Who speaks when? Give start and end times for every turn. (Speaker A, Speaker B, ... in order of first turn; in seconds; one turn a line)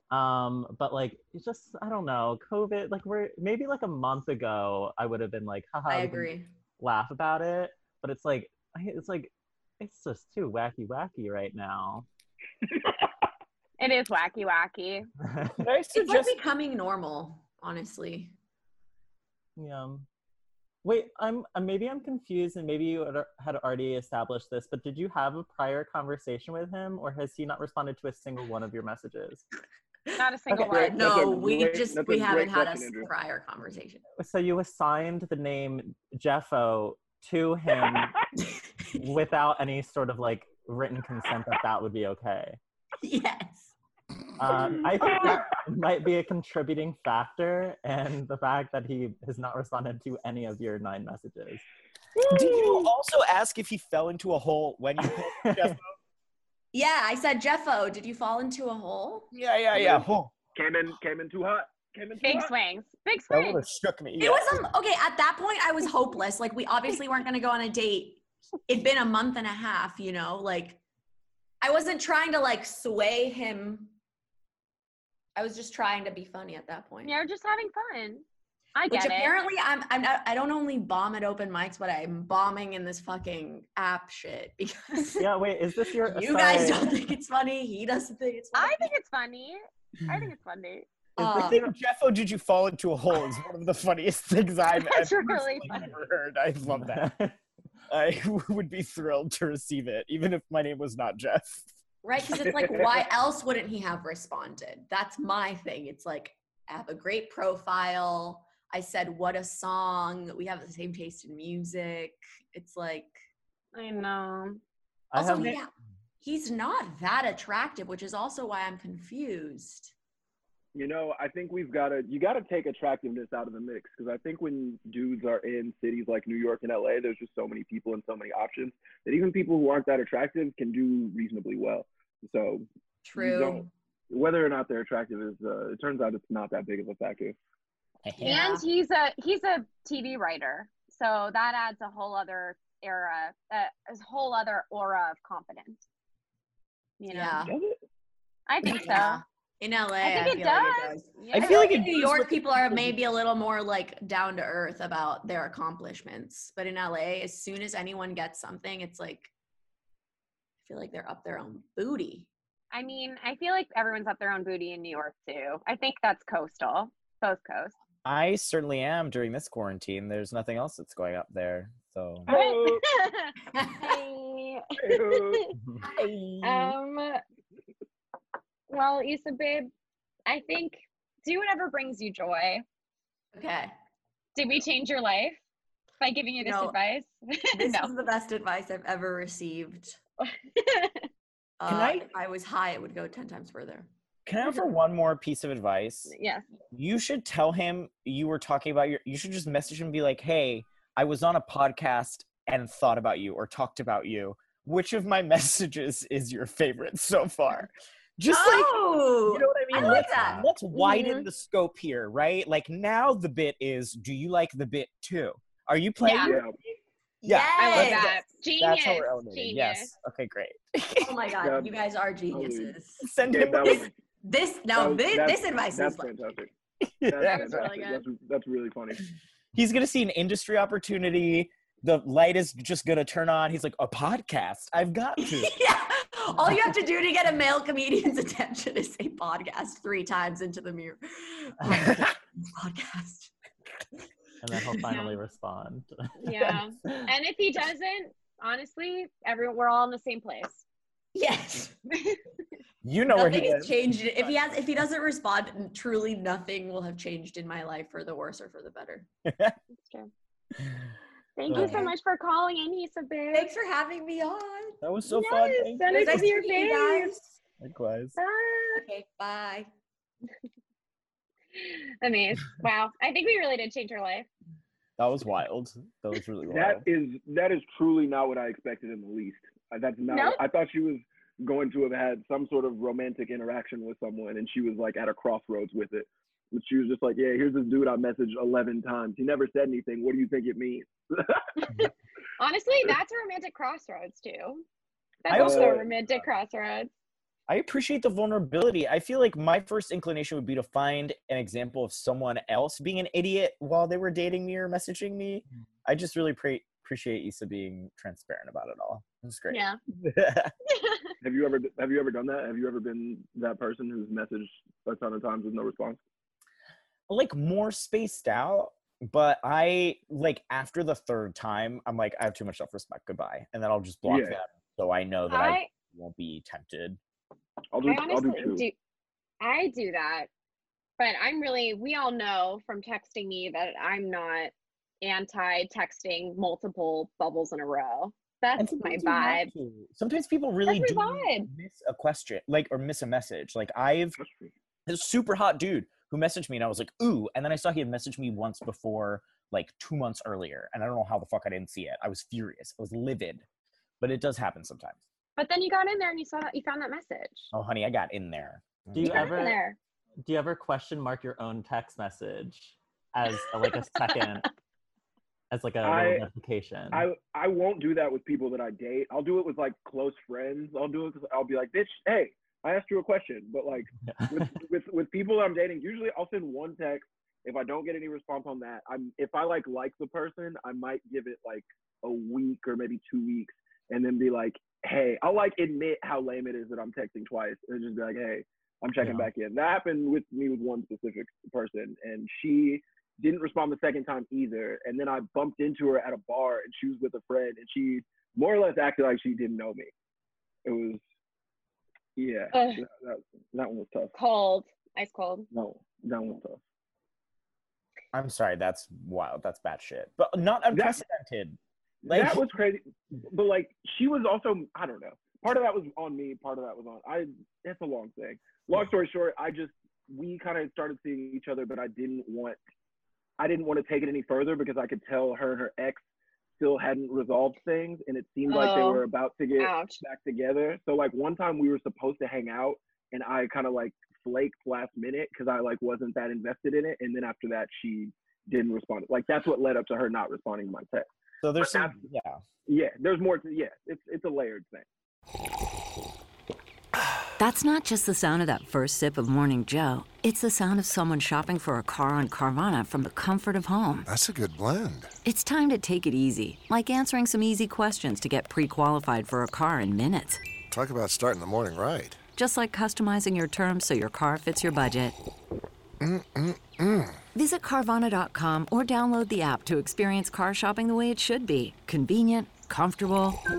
Speaker A: 0.1-12.1
Speaker B: 5.9-6.5
Speaker C: 13.8-15.1
Speaker A: 15.2-15.6
Speaker D: 15.5-16.4
Speaker B: 15.9-18.3
Speaker A: 19.6-20.1
Speaker A: 20.8-29.4
Speaker B: 30.1-34.0
Speaker C: 30.1-31.0
Speaker E: 30.5-33.1
Speaker A: 34.2-38.1
Speaker A: 39.0-42.6
Speaker B: 43.0-43.7
Speaker A: 44.4-51.6
Speaker E: 44.5-45.5
Speaker E: 52.2-52.9
Speaker D: 52.3-55.9
Speaker A: 55.2-55.7
Speaker B: 56.7-59.3
Speaker D: 59.3-60.3
Speaker E: 59.7-62.5
Speaker C: 62.2-63.6
Speaker D: 63.3-64.6
Speaker B: 64.2-70.8
Speaker B: 71.6-73.9
Speaker B: 75.3-77.1
Speaker C: 77.0-79.3
Speaker B: 78.9-85.3
Speaker A: 85.2-86.9
Speaker B: 86.0-89.0
Speaker C: 88.5-90.9
Speaker B: 91.2-91.6
Speaker D: 91.2-97.1
Speaker C: 94.7-95.9
Speaker A: 96.7-97.4
Speaker D: 97.9-101.7
Speaker B: 102.0-113.2
Speaker C: 113.7-114.6
Speaker A: 115.1-115.6
Speaker B: 115.2-115.7
Speaker D: 115.2-115.6
Speaker B: 116.2-119.9
Speaker E: 120.7-137.3
Speaker B: 133.0-133.7
Speaker D: 138.0-138.4
Speaker B: 138.2-138.6
Speaker C: 138.2-145.8
Speaker C: 147.0-147.4
Speaker B: 147.1-147.5
Speaker E: 147.4-147.8
Speaker C: 148.5-149.2
Speaker B: 148.6-159.3
Speaker C: 150.0-152.2
Speaker D: 151.3-152.2
Speaker B: 160.6-162.3
Speaker C: 162.7-167.7
Speaker D: 168.0-172.3
Speaker E: 172.2-172.9
Speaker C: 172.3-175.5
Speaker B: 173.5-174.0
Speaker E: 174.8-175.5
Speaker D: 175.8-176.8
Speaker C: 176.4-177.2
Speaker C: 178.7-179.7
Speaker C: 180.2-182.6
Speaker B: 183.3-183.7
Speaker C: 184.3-185.4
Speaker C: 186.0-188.0
Speaker B: 186.4-186.8
Speaker B: 187.5-190.0
Speaker C: 190.2-191.0
Speaker B: 191.6-193.9
Speaker D: 191.7-192.1
Speaker D: 194.2-196.1
Speaker C: 196.1-196.4
Speaker D: 196.7-216.4
Speaker B: 208.3-210.5
Speaker A: 209.8-210.4
Speaker C: 210.7-211.3
Speaker C: 216.0-216.4
Speaker E: 216.2-216.5
Speaker B: 217.2-218.1
Speaker D: 217.2-221.1
Speaker C: 217.5-219.9
Speaker B: 221.0-223.1
Speaker E: 221.4-221.8
Speaker E: 222.3-223.9
Speaker D: 223.0-223.9
Speaker B: 223.7-226.2
Speaker E: 224.7-226.5
Speaker D: 227.0-227.7
Speaker E: 227.1-229.0
Speaker C: 227.2-228.0
Speaker D: 229.5-235.5
Speaker B: 235.2-243.3
Speaker A: 244.4-246.3
Speaker C: 244.9-245.2
Speaker C: 246.2-250.6
Speaker B: 251.1-252.1
Speaker D: 252.8-254.6
Speaker B: 253.1-259.1
Speaker D: 259.2-259.5
Speaker C: 259.8-260.1
Speaker C: 261.4-263.5
Speaker D: 261.5-261.9
Speaker B: 261.6-261.9
Speaker B: 263.3-264.8
Speaker D: 264.8-266.3
Speaker C: 265.1-267.2
Speaker B: 265.9-267.3
Speaker D: 267.6-268.1
Speaker C: 268.1-268.9
Speaker B: 268.8-269.7
Speaker C: 271.6-274.3
Speaker D: 275.0-276.9
Speaker E: 276.4-291.4
Speaker C: 280.1-280.4
Speaker C: 291.6-294.6
Speaker C: 295.2-296.9
Speaker D: 295.3-295.8
Speaker E: 295.3-296.3
Speaker D: 297.5-310.5
Speaker C: 309.5-309.8
Speaker C: 310.7-311.1
Speaker E: 311.2-316.0
Speaker D: 317.1-327.0
Speaker E: 324.0-324.4
Speaker C: 325.3-325.7
Speaker E: 327.7-328.6
Speaker C: 327.8-328.7
Speaker C: 329.4-330.3
Speaker C: 331.0-339.5
Speaker D: 338.6-344.1
Speaker C: 340.6-341.5
Speaker E: 344.2-344.5
Speaker D: 344.9-353.4
Speaker D: 354.0-355.0
Speaker C: 355.4-357.5
Speaker D: 357.5-359.3
Speaker A: 358.9-359.6
Speaker C: 359.0-359.8
Speaker A: 360.2-364.5
Speaker A: 365.5-367.1
Speaker E: 365.8-366.3
Speaker E: 366.9-399.9
Speaker A: 374.1-374.5
Speaker A: 389.0-389.3
Speaker E: 400.6-401.0
Speaker E: 402.1-404.1
Speaker C: 402.5-402.8
Speaker C: 404.1-405.5
Speaker E: 405.5-406.6
Speaker D: 408.1-412.4
Speaker E: 410.7-411.0
Speaker E: 412.0-422.6
Speaker E: 423.4-426.0
Speaker E: 426.6-441.1
Speaker C: 428.5-429.0
Speaker C: 429.6-430.0
Speaker D: 441.4-442.4
Speaker E: 441.6-442.0
Speaker E: 442.6-444.9
Speaker F: 447.4-454.1
Speaker G: 454.1-455.1
Speaker F: 455.2-460.4
Speaker G: 460.7-462.2
Speaker F: 462.3-465.1
Speaker G: 466.0-467.2
Speaker F: 467.3-473.4